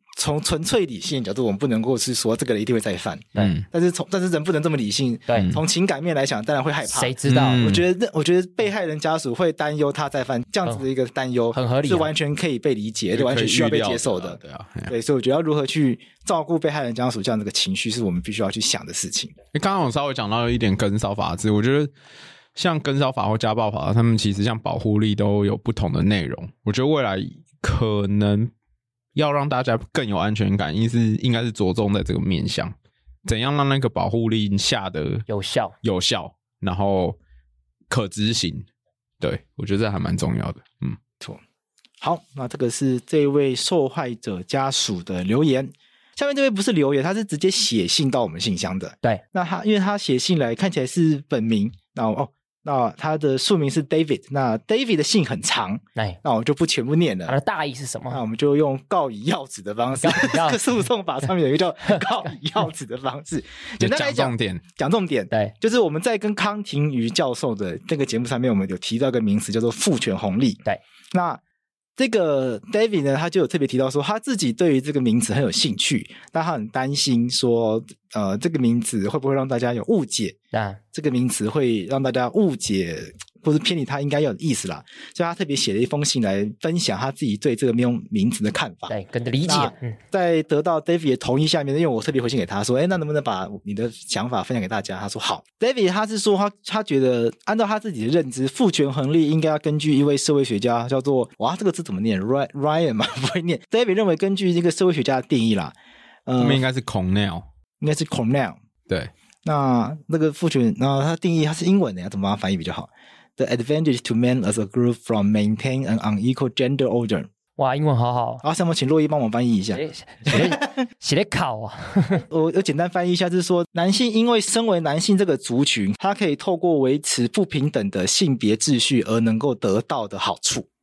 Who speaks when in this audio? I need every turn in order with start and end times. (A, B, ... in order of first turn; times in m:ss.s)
0:00.2-0:19.3 A
0:03.4-0:03.6 B
0:05.4-0:05.6 B
0:06.9-0:07.6 C
0:07.2-0:07.9 B
0:11.5-0:12.1 C
0:13.1-0:14.9 B
0:19.5-0:21.9 B
0:22.6-0:28.5 B
0:29.2-0:35.3 B
0:35.3-0:35.7 C
0:35.8-0:37.2 B
0:37.9-0:38.7 B
0:39.2-0:41.0 B
0:42.0-0:57.4 A
0:57.3-0:58.2 C
0:58.1-1:10.6 A
1:00.0-1:00.6 C
1:03.8-1:04.6 B
1:11.1-1:11.4 A
1:12.0-1:20.4 A
1:20.5-1:20.8 C
1:20.9-1:29.0 A
1:28.9-1:30.0 C
1:29.5-1:45.8 A
1:46.3-1:46.6 A
1:46.4-1:47.5 B
1:47.8-1:48.6 A
1:49.4-1:57.3 A
1:57.6-1:58.4 C
1:58.4-2:00.8 A
1:59.8-2:02.2 C
2:02.2-2:10.7 A